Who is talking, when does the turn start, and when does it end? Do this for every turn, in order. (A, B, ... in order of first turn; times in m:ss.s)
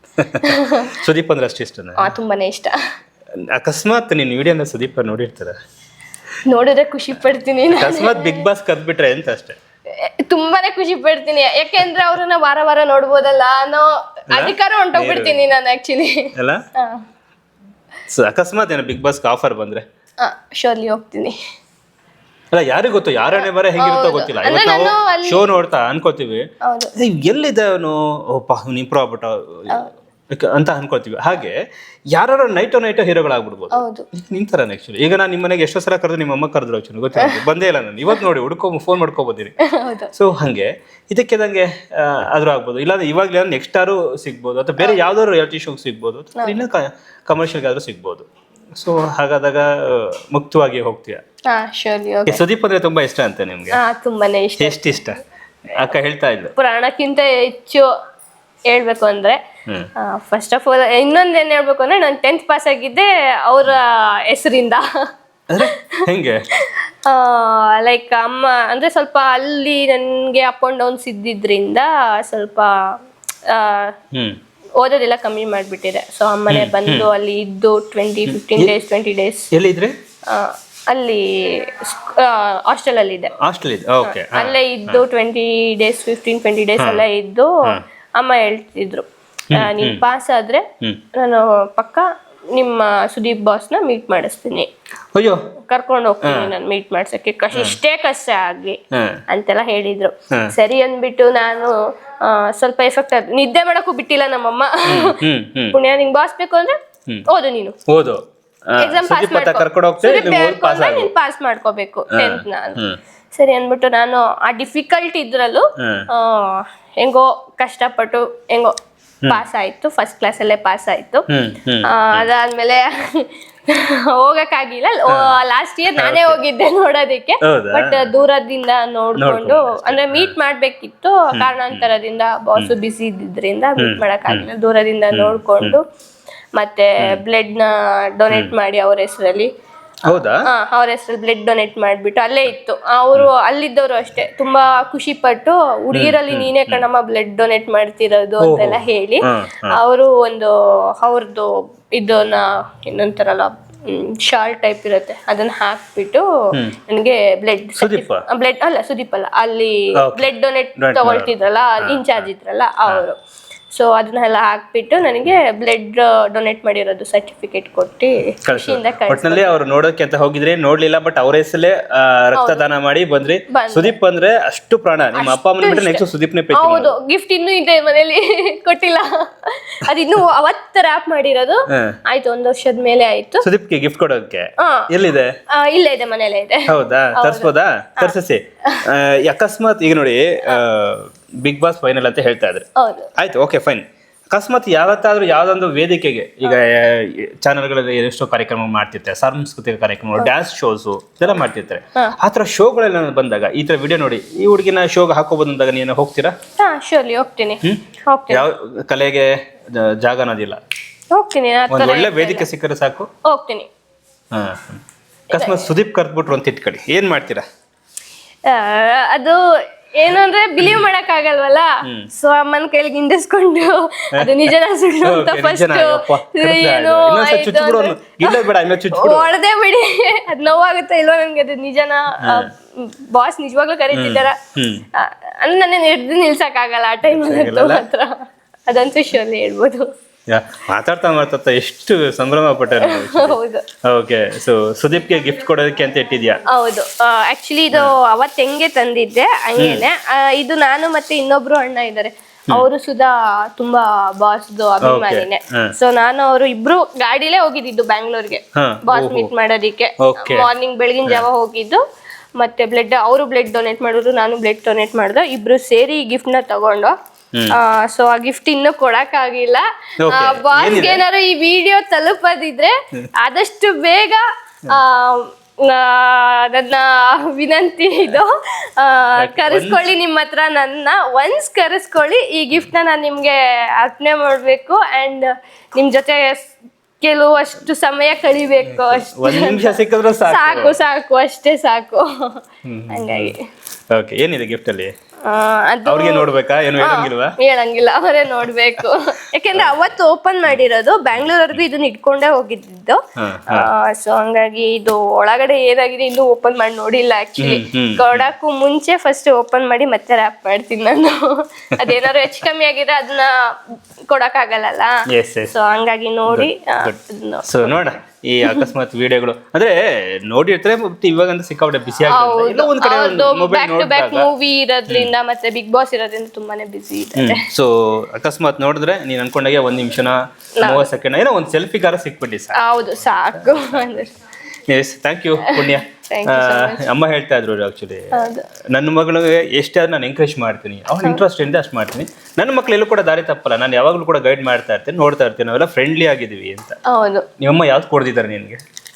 0:00.2-0:02.1 A
0:00.4-0:01.0 B
0:02.0-0:02.8 B
0:03.5-0:05.5 A
0:06.5-0:08.4 B
0:07.7-0:09.6 A
0:09.9-0:17.0 B
0:14.3-0:15.5 A
0:16.4-0:16.6 A
0:18.1-0:19.8 A
0:20.2-0:21.3 B
0:22.5-0:29.8 A
0:23.4-0:25.5 B
0:26.6-0:26.9 B
0:30.3-0:31.6 A
0:32.1-0:39.6 A
0:33.7-0:34.0 B
0:37.2-0:37.4 B
0:39.6-0:40.1 B
0:40.1-0:51.2 A
0:51.5-0:52.4 B
0:52.3-0:53.8 A
0:53.7-0:54.8 B
0:54.6-0:55.2 A
0:55.8-0:56.5 A
0:56.6-0:57.9 B
0:58.7-0:59.4 B
1:00.0-1:04.8 B
1:05.5-1:06.4 A
1:05.6-1:06.0 B
1:06.5-1:12.9 B
1:13.5-1:13.9 B
1:14.1-1:14.4 A
1:14.8-1:19.5 B
1:16.5-1:17.1 A
1:18.3-1:18.8 A
1:19.5-1:19.9 A
1:20.3-1:23.3 B
1:23.4-1:25.0 A
1:24.0-1:34.7 B
1:26.8-1:27.0 A
1:29.5-1:30.0 A
1:35.1-1:35.4 A
1:35.7-1:38.8 B
1:36.2-1:36.5 A
1:37.5-1:37.8 A
1:38.9-1:39.2 A
1:39.3-1:41.7 B
1:42.2-1:45.2 B
1:44.9-1:45.8 A
1:45.7-1:46.8 B
1:47.3-1:47.7 B
1:47.9-1:51.1 A
1:48.8-1:52.8 B
1:52.1-1:53.0 A
1:53.3-1:58.7 B
1:55.8-1:56.1 A
1:59.3-2:01.2 B
2:01.3-2:02.3 A
2:01.9-2:15.8 B
2:05.1-2:05.3 A
2:06.0-2:06.4 A
2:07.4-2:08.1 A
2:09.2-2:10.4 A
2:11.3-2:11.8 A
2:13.8-2:14.5 A
2:15.1-2:15.8 A
2:16.6-2:19.5 B
2:20.1-2:20.4 A
2:20.4-2:36.2 B
2:25.9-2:26.8 A
2:28.4-2:29.8 A
2:36.8-2:43.2 B
2:37.8-2:38.2 A
2:40.0-2:42.3 A
2:43.7-2:49.5 B
2:48.4-2:56.9 A
2:52.4-2:52.6 B
2:53.5-2:53.9 B
2:55.1-3:03.4 B
3:01.7-3:02.0 A
3:03.4-3:05.3 A
3:04.6-3:04.9 B
3:05.5-3:07.5 B
3:06.7-3:26.3 A
3:12.8-3:13.1 B
3:26.6-3:28.4 B
3:27.6-3:30.6 A
3:31.1-3:32.5 B
3:31.7-3:33.1 A
3:33.2-3:33.7 B
3:34.3-3:37.4 A
3:35.3-3:35.6 B
3:38.4-3:54.4 B
3:44.1-3:49.3 A
3:52.2-3:52.5 A
3:53.9-3:54.8 A
3:54.9-3:59.8 B
3:57.0-3:57.8 A
4:00.3-4:06.4 A
4:02.8-4:03.6 B
4:06.5-4:21.8 B
4:09.6-4:09.8 A
4:14.8-4:15.7 A
4:18.5-4:19.3 A
4:20.0-4:20.5 A
4:22.4-4:26.9 B
4:27.5-4:52.4 B
4:30.0-4:31.0 A
4:39.2-4:39.9 A
4:48.6-4:50.8 A
4:52.6-4:53.3 A
4:52.9-4:53.4 B
4:53.9-4:54.9 A
4:55.2-5:13.3 B
4:55.8-4:57.4 A
5:03.2-5:03.7 A
5:07.4-5:08.3 A
5:11.8-5:12.1 A
5:14.1-5:14.9 B
5:15.1-5:15.5 A
5:15.5-5:17.9 B
5:16.3-5:24.3 A
5:22.1-5:27.4 B
5:24.9-5:25.1 A
5:27.2-5:34.0 A
5:30.6-5:30.9 B
5:32.6-5:34.1 B
5:34.7-5:38.1 A
5:35.4-5:36.8 B
5:38.1-5:38.4 B
5:38.7-5:46.8 A
5:46.9-5:47.2 B
5:47.4-5:48.6 A